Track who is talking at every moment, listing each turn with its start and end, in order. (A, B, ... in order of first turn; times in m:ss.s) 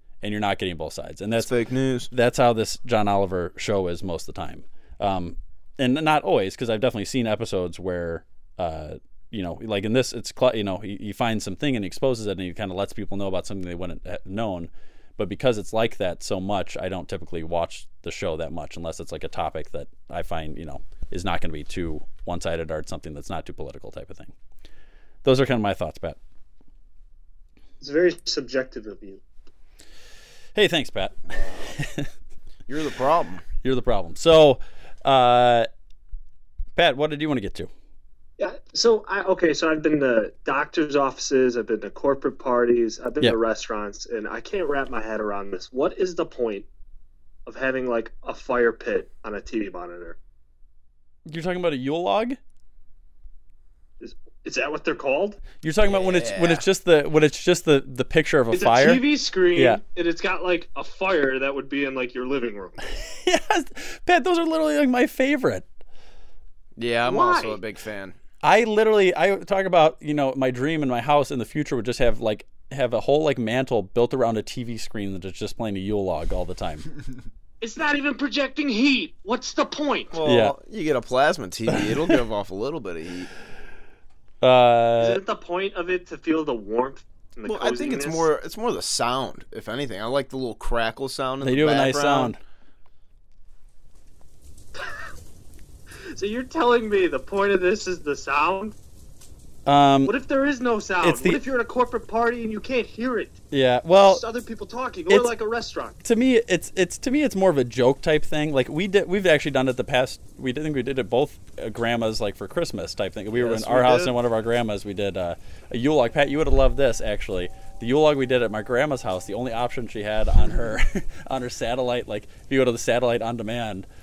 0:00.2-0:01.5 A
0:01.4-0:02.1 B
0:02.1-0:24.3 A
0:25.2-0:26.2 A
0:27.8-0:29.2 C
0:30.5-0:32.1 A
0:31.4-0:31.7 B
0:32.7-0:33.4 B
0:33.6-0:35.7 A
0:36.8-0:37.7 A
0:38.4-0:46.6 C
0:47.4-0:50.2 C
0:51.2-0:52.4 A
0:54.0-0:55.4 C
0:55.6-0:59.8 A
0:55.8-0:56.6 B
0:58.5-1:02.8 C
1:03.0-1:05.6 A
1:06.8-1:08.2 B
1:07.0-1:07.6 C
1:08.4-1:16.8 A
1:17.6-1:20.2 C
1:20.1-1:23.3 B
1:20.2-1:20.5 A
1:21.7-1:22.2 A
1:24.4-1:25.2 A
1:25.0-1:28.3 C
1:27.4-1:32.3 B
1:31.4-1:32.4 A
1:34.7-1:35.1 C
1:36.1-1:38.7 C
1:39.6-1:40.1 A
1:40.0-1:43.4 C
1:41.0-1:41.4 A
1:43.5-1:44.2 A
1:44.0-1:46.0 C
1:46.0-2:03.9 A
1:53.4-1:54.1 C